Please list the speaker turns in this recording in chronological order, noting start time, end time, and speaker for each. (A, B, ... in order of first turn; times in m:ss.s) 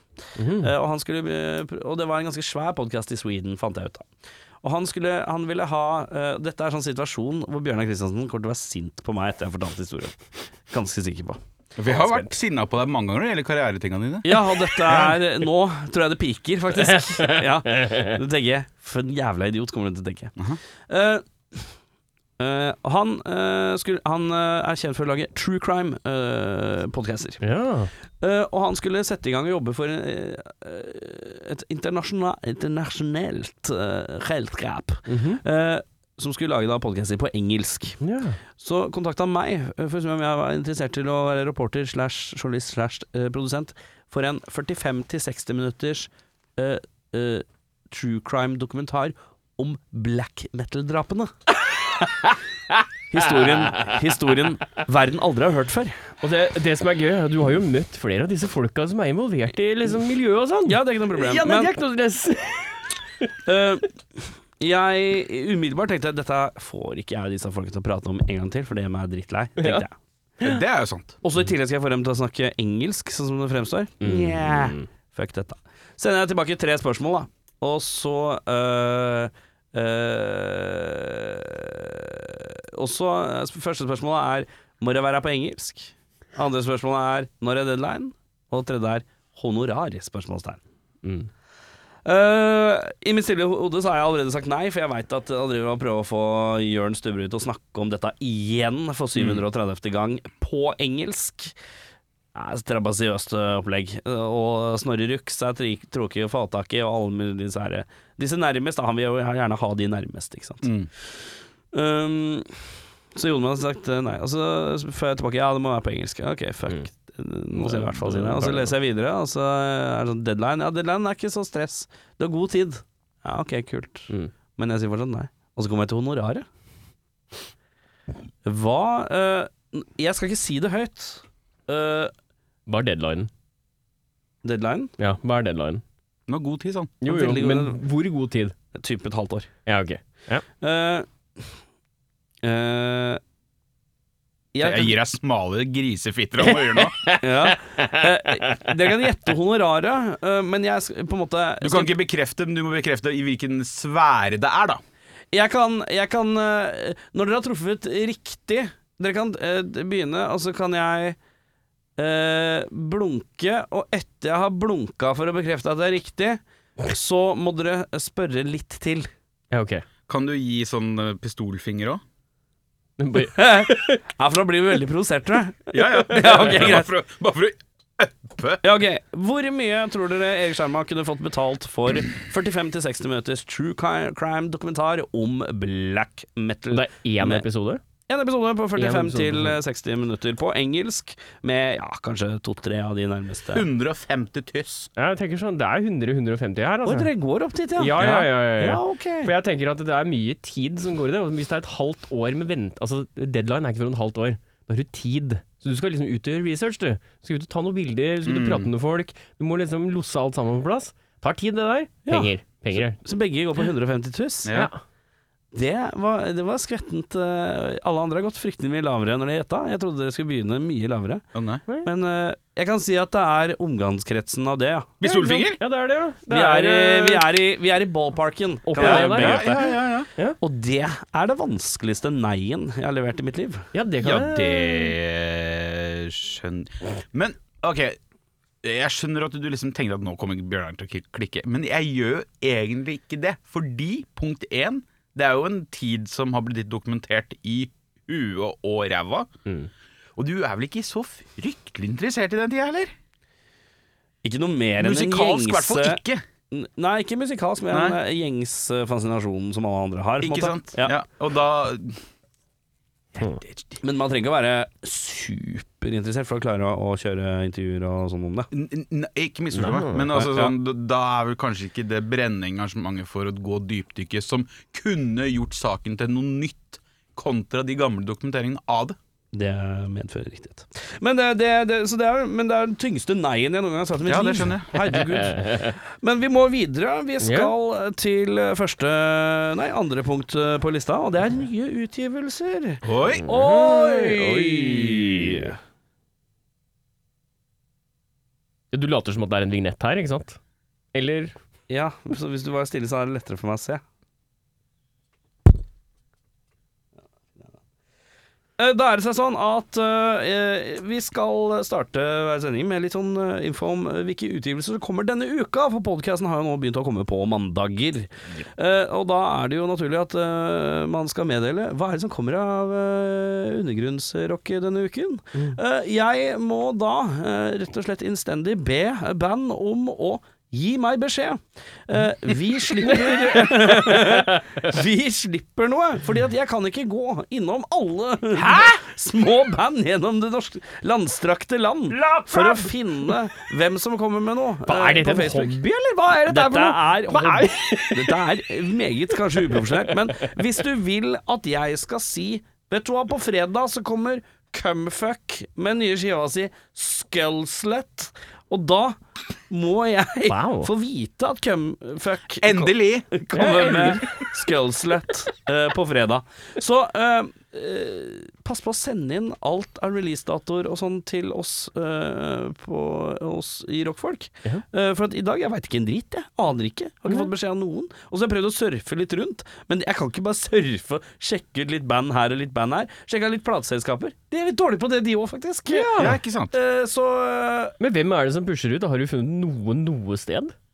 0:00.4-0:00.7 A
0:00.6-0:04.1 B
0:04.6-0:11.4 B
0:11.8-0:15.2 C
0:14.2-0:20.4 B
0:16.9-0:18.0 A
0:20.9-0:21.7 B
0:22.4-0:27.4 B
0:27.4-0:27.9 A
0:28.2-0:38.0 B
0:35.1-0:35.4 A
0:38.0-0:38.4 A
0:38.6-0:51.3 B
0:53.1-0:56.0 B
0:53.6-0:53.9 A
0:56.2-1:02.8 A
1:00.6-1:01.7 B
1:03.5-1:03.9 B
1:04.6-1:09.9 B
1:09.6-1:09.8 A
1:10.4-1:11.2 C
1:11.2-1:30.6 B
1:14.0-1:14.8 A
1:31.0-1:31.3 A
1:32.0-1:41.6 B
1:42.3-1:50.7 B
1:50.6-1:50.9 C
1:51.7-1:52.5 B
1:53.2-2:06.5 B
1:57.6-1:58.7 A
2:08.4-2:12.1 B
2:12.7-2:13.3 A
2:14.4-2:14.9 B
2:15.0-2:15.8 A
2:16.3-2:17.0 C
2:17.0-2:18.6 A
2:17.1-2:17.8 B
2:18.7-2:19.5 B
2:19.7-2:20.4 A
2:20.6-2:21.1 B
2:22.4-2:23.2 B
2:24.5-2:25.0 B
2:24.6-2:27.1 C
2:26.5-2:28.1 A
2:27.2-2:32.0 B
2:31.6-2:34.8 C
2:35.3-2:41.2 B
2:42.0-2:49.1 B
2:49.5-2:49.8 A
2:50.1-2:52.0 C
2:53.0-2:54.0 A
2:53.2-2:56.9 B
2:55.7-2:58.6 C
2:58.6-3:07.4 B
3:06.7-3:07.8 A
3:08.1-3:13.7 B
3:08.8-3:09.6 A
3:13.5-3:14.9 C
3:15.0-3:17.1 A
3:16.8-3:19.3 B
3:17.8-3:33.0 A
3:18.0-3:18.3 C
3:28.2-3:28.7 C
3:32.1-3:34.5 B
3:34.4-3:34.7 C
3:34.5-3:34.8 A
3:35.5-3:41.2 B
3:41.3-3:41.6 C
3:41.8-3:45.0 B
3:45.0-3:45.6 C
3:45.0-3:47.3 A
3:46.3-3:49.7 B
3:48.7-3:50.4 A
3:48.8-3:50.1 C
3:50.4-3:53.7 B
3:53.7-3:55.0 A
3:54.0-3:58.0 C
3:58.6-4:09.3 C
4:10.2-4:12.9 C
4:14.2-4:21.0 B
4:14.8-4:16.2 C
4:17.7-4:18.0 C
4:20.2-4:22.0 C
4:23.3-4:23.8 C
4:23.8-4:28.5 B
4:28.5-4:39.0 C
4:29.5-4:30.2 A
4:30.2-4:30.5 B
4:39.3-4:55.6 B
4:44.0-4:44.8 C
4:44.8-4:45.8 A
4:47.2-4:47.5 A
4:52.8-4:53.3 C
4:53.3-4:55.5 A
4:58.7-5:00.4 A
5:00.9-5:01.4 A
5:01.7-5:03.8 B
5:08.6-5:45.6 B
5:32.8-5:34.4 A
5:38.4-5:38.8 A
5:41.9-5:43.1 A
5:44.7-5:48.2 A
5:46.3-5:59.0 B
5:59.5-6:27.8 B
6:00.3-6:00.7 A
6:02.4-6:03.1 C
6:03.3-6:04.3 A
6:25.7-6:26.2 A
6:26.0-6:26.5 C
6:27.8-6:30.5 A